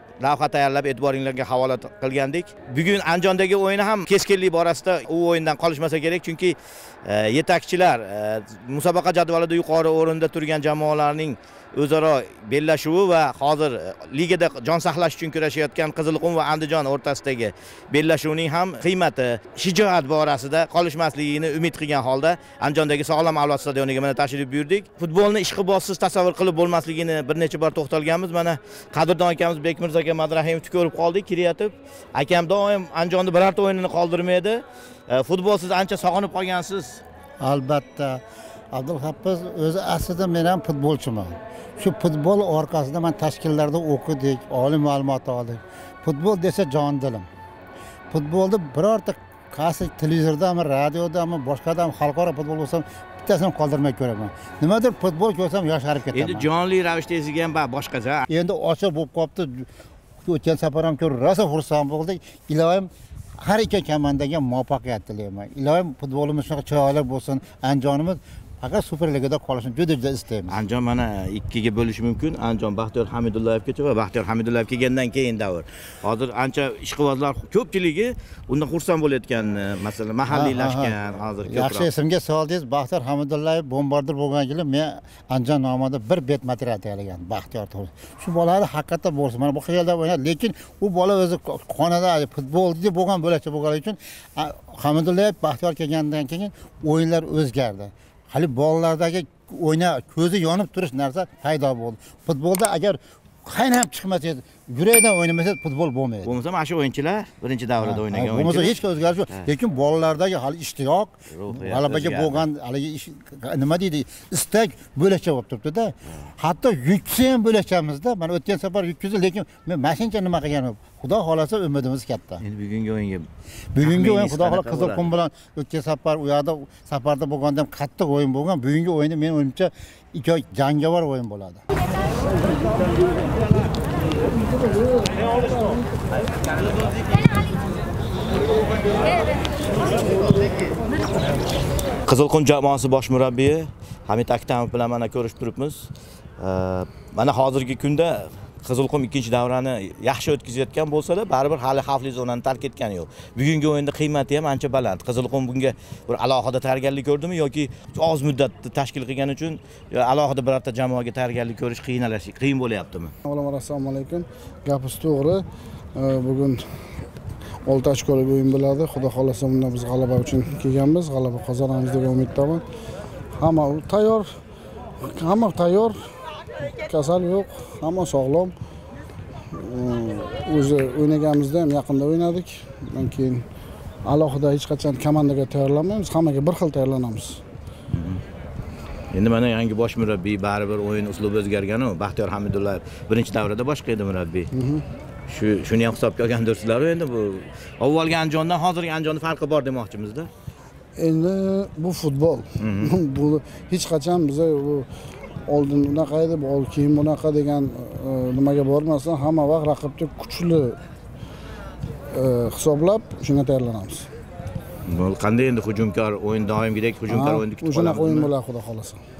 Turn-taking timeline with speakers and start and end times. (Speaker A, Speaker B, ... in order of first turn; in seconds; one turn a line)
Speaker A: 0.2-37.0
Speaker B: 37.4-38.2
Speaker B: 38.7-47.3
Speaker B: 48.1-56.5
Speaker A: 56.1-58.2
Speaker B: 58.3-59.7
Speaker B: 60.2-70.6
Speaker A: 70.5-81.9
Speaker B: 80.3-80.9
Speaker B: 81.5-106.4
Speaker A: 106.2-108.7
Speaker B: 107.8-122.4
Speaker A: 111.3-112.5
Speaker A: 122.4-123.3
Speaker B: 123.7-131.6
Speaker A: 123.8-125.1
Speaker A: 142.1-145.9
Speaker A: 146.4-163.1
Speaker C: 163.3-165.4
Speaker C: 165.9-166.6
Speaker C: 167.6-172.6
Speaker C: 173.4-174.3
Speaker C: 175.0-176.0
Speaker C: 176.7-178.5
Speaker C: 179.5-183.4
Speaker C: 184.0-187.4
Speaker A: 187.9-188.2
Speaker A: 189.1-194.5
Speaker C: 194.5-194.8
Speaker A: 195.3-200.3
Speaker C: 201.0-204.9
Speaker A: 202.6-202.9
Speaker C: 205.5-210.8
Speaker C: 212.1-214.1
Speaker A: 214.8-218.3
Speaker C: 217.1-219.0